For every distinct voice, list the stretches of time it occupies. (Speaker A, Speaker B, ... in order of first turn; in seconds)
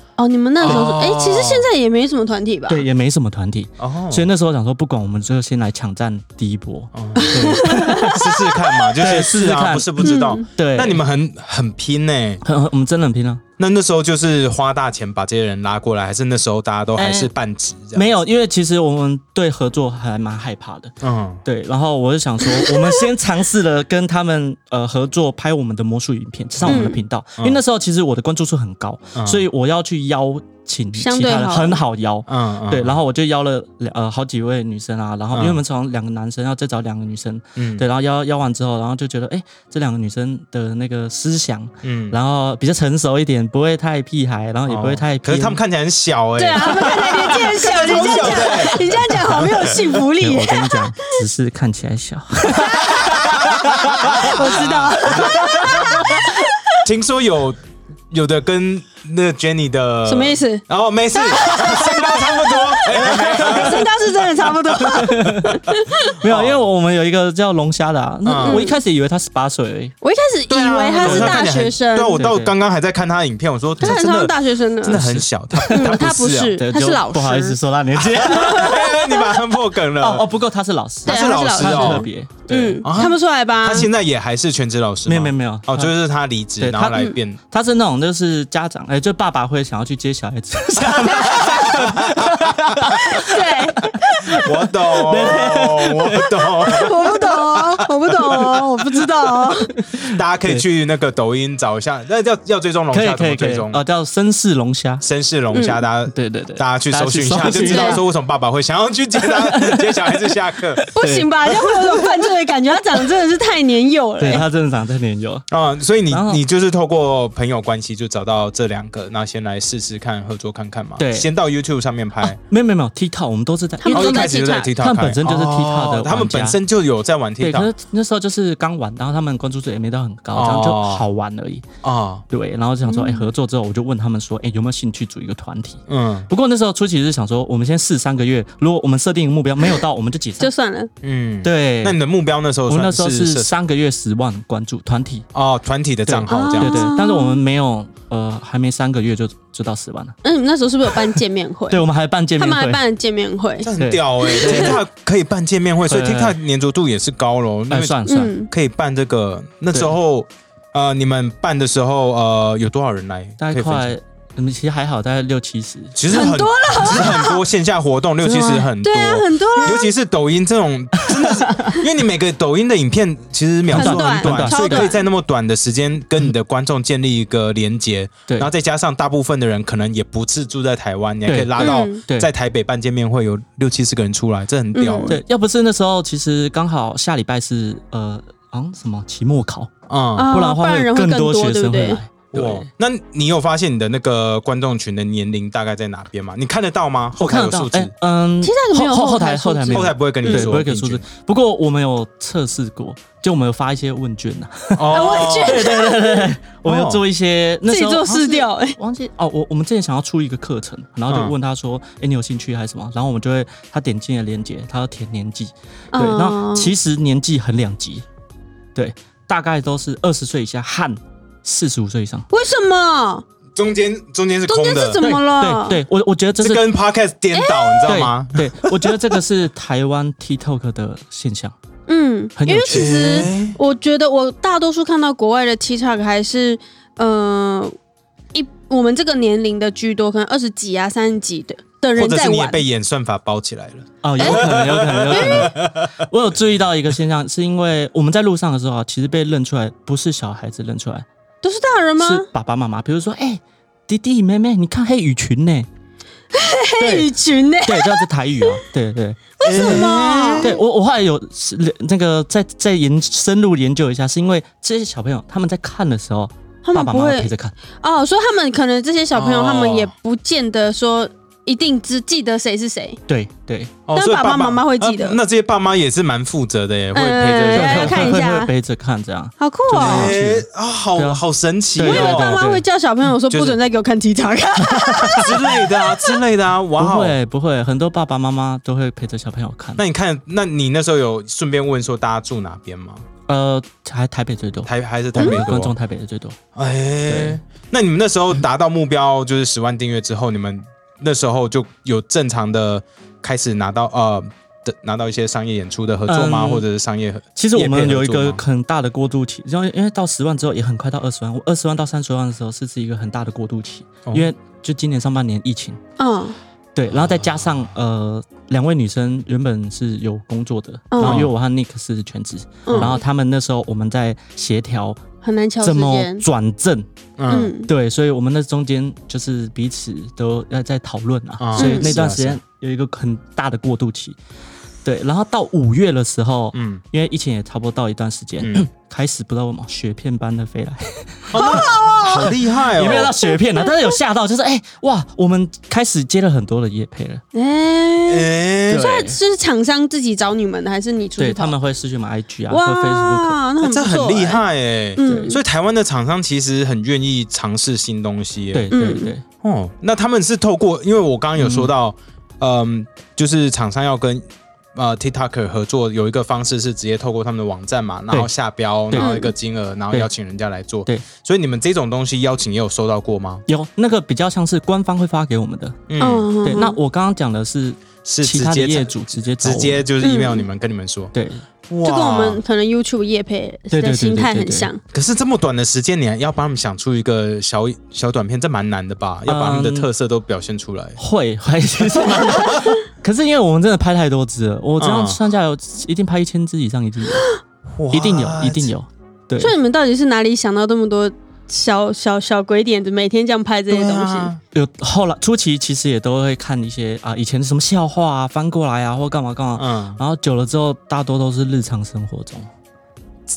Speaker A: 0.2-2.8, 7.2-8.8, 10.0-10.4, 22.5-23.0, 26.7-27.0, 31.0-31.8, 46.4-50.9, 52.6-53.1, 54.2-56.8, 60.0-60.6, 61.1-66.1, 68.4-68.8, 70.0-72.2, 73.8-75.0, 75.7-77.6, 78.3-78.9, 81.0-83.9, 93.2-94.4, 96.7-99.7, 105.5-105.8, 107.4-108.0, 110.9-114.4, 123.8-124.7, 132.8-133.3, 140.4-140.9, 146.3-147.4, 150.2-151.8, 152.4-153.7, 154.2-154.8, 158.1-158.5, 166.1-167.4, 168.2-169.9, 173.7-175.0, 181.6-182.0, 184.7-185.2, 190.2-192.0, 198.4-200.5, 204.9-206.3, 207.7-208.8, 215.9-216.7, 222.3-223.2, 224.5-225.8, 227.3-227.9, 231.9-237.7, 238.3-242.6, 244.2-244.5, 245.1-245.5, 251.4-252.3, 256.3-258.6, 259.4-260.6, 266.6-267.3, 267.8-273.0, 273.9-275.2, 276.9-278.5, 279.4-280.1, 281.8-286.2, 316.0-316.4, 320.9-321.2, 322.6-323.0, 325.2-326.2, 327.3-327.7, 331.6-331.9, 341.3-342.3, 347.3-351.5, 352.5-354.4, 355.0-355.4, 358.7-359.1, 368.9-369.3, 376.0-376.8, 380.0-380.4, 381.8-384.8, 399.4-404.3
Speaker B: 0.6-1.7, 3.8-4.3, 6.9-12.4, 13.6-18.1, 21.0-21.4, 26.6-27.6, 29.1-29.4, 32.3-33.0, 35.3-35.6, 37.5-37.8, 41.8-42.1, 44.7-49.9, 52.8-57.6, 58.1-63.9, 66.2-66.6, 68.2-68.7, 70.5-76.6, 78.0-80.3, 81.0-82.0, 82.8-87.4, 90.8-93.0, 94.3-98.5, 100.1-103.8, 105.0-110.8, 115.5-122.4, 123.9-127.7, 130.3-131.0, 131.8-132.2, 135.9-136.3, 141.0-143.5, 145.3-146.9, 153.6-163.9, 165.9-185.2, 189.9-190.3, 192.3-197.9, 199.7-201.0, 204.8-205.7, 206.6-207.0, 211.1-211.3, 223.6-225.0, 226.4-229.1, 232.7-233.6, 241.9-245.9, 259.4-260.5, 269.1-269.9, 273.9-278.2, 279.7-282.4, 283.3-283.6, 285.1-287.1, 289.8-293.0, 294.6-295.7, 296.5-308.4, 321.0-321.3, 322.7-322.9, 327.2-327.5, 331.4-332.4, 336.5-336.8, 338.4-338.7, 341.3-343.1, 348.1-348.8, 353.6-358.7, 359.4-373.4, 375.9-376.3, 378.0-381.1, 381.7-382.4, 384.9-391.0, 391.9-392.7, 394.8-395.2, 397.7-398.7, 403.7-404.4, 409.6-410.0
Speaker C: 2.7-8.2, 9.0-11.0, 12.4-13.4, 16.9-17.3, 17.9-45.6, 50.2-54.4, 55.5-56.3, 63.2-63.7, 64.9-65.6, 66.2-69.9, 71.0-71.5, 72.1-72.5, 74.8-76.0, 76.6-79.2, 80.0-82.8, 85.1-85.9, 86.6-97.2, 99.8-100.6, 102.9-105.0, 106.1-108.0, 109.2-112.3, 114.2-115.5, 116.1-116.4, 121.0-121.3, 122.2-126.6, 127.4-131.7, 132.3-140.5, 141.4-142.0, 142.7-145.2, 146.1-150.2, 151.7-152.8, 153.8-154.8, 155.9-156.3, 157.7-158.3, 163.4-166.3, 171.0-171.8, 173.7-174.9, 181.2-182.3, 185.1-189.7, 190.3-192.7, 197.2-218.1, 218.7-222.3, 225.0-226.6, 227.8-231.5, 232.4-233.3, 244.0-251.1, 252.0-255.7, 256.8-257.1, 257.6-259.9, 260.4-267.5, 273.1-273.7, 277.5-281.2, 281.7-282.6, 284.6-285.2, 286.8-289.8, 293.3-296.4, 297.1-297.4, 306.1-306.6, 307.4-315.8, 316.7-325.0, 325.6-334.2, 334.8-347.2, 348.7-349.2, 351.2-353.4, 355.0-355.3, 358.5-359.2, 361.4-361.7, 368.9-369.1, 373.5-375.9, 376.4-379.8, 381.1-381.4, 383.7-384.7, 389.3-389.9, 391.0-397.3, 397.9-399.5, 404.5-412.5